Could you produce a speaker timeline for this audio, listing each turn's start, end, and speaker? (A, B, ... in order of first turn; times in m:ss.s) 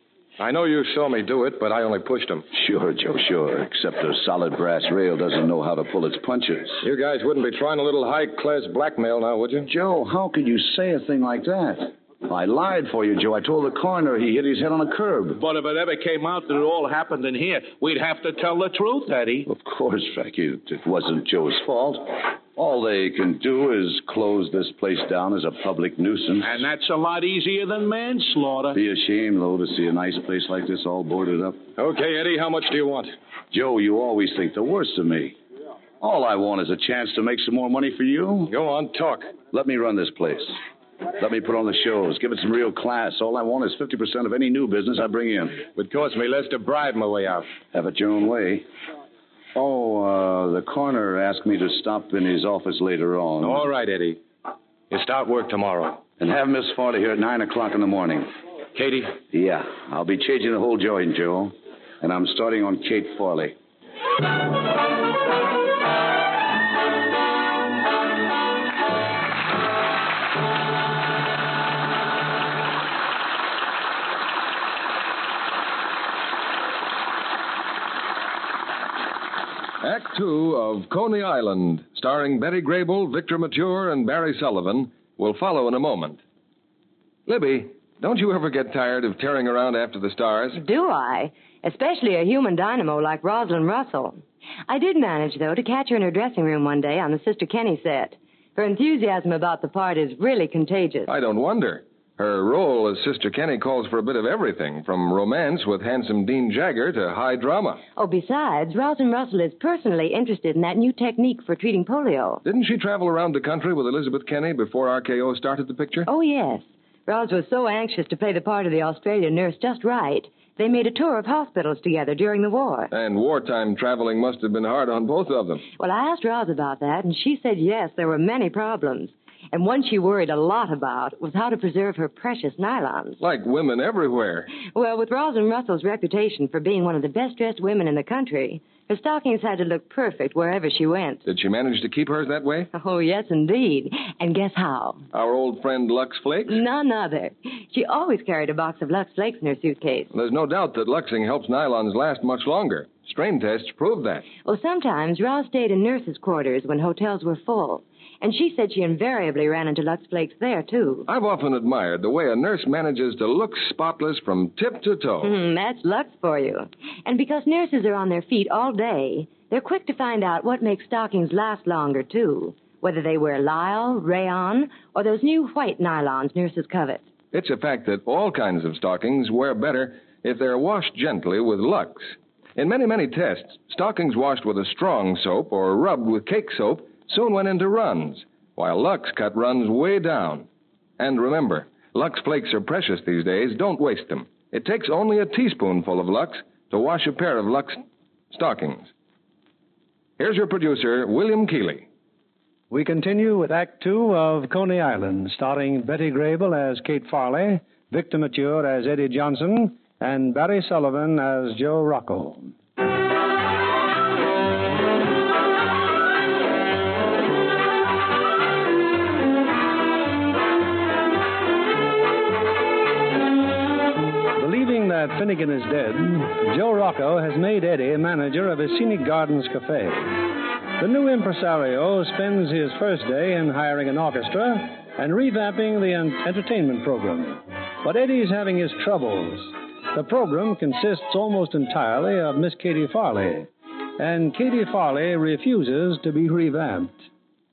0:00.4-0:02.4 A
0:02.5-0:06.8 B
0:06.8-0:09.7 A
0:09.6-0:15.4 B
0:15.4-0:19.5 C
0:19.4-0:26.6 B
0:26.4-0:28.8 C
0:28.7-0:31.6 B
0:31.8-0:33.1 A
0:33.5-0:35.4 B
0:36.0-0:38.5 B
0:38.5-0:39.3 A
0:39.5-0:40.6 B
0:41.2-0:45.7 B
0:45.7-0:47.4 A
0:47.7-0:48.6 B
0:49.5-0:53.7 B
0:53.4-0:54.2 A
0:54.9-0:56.0 A
0:56.2-0:58.3 B
0:58.7-0:59.2 A
0:59.3-1:03.6 B
1:19.8-1:26.2 D
1:27.3-1:30.6 D
1:30.5-1:41.1 E
1:41.0-1:47.8 D
1:48.0-1:52.4 E
1:52.4-1:56.1 D
1:56.1-2:02.9 E
2:02.9-2:05.7 D
2:05.7-2:13.2 E
2:13.2-2:14.5 D
2:14.5-2:21.2 E
2:21.2-2:22.7 D
2:22.7-2:25.1 E
2:25.1-2:26.6 D
2:26.5-2:30.1 E
2:30.1-2:34.3 D
2:34.3-2:41.0 E
2:41.0-2:45.3 D
2:45.2-2:57.1 E
2:57.3-3:10.5 D
3:11.0-3:18.9 D
3:20.2-3:21.9 D
3:22.7-3:32.5 F
3:44.4-3:50.2 F
3:50.8-4:07.0 F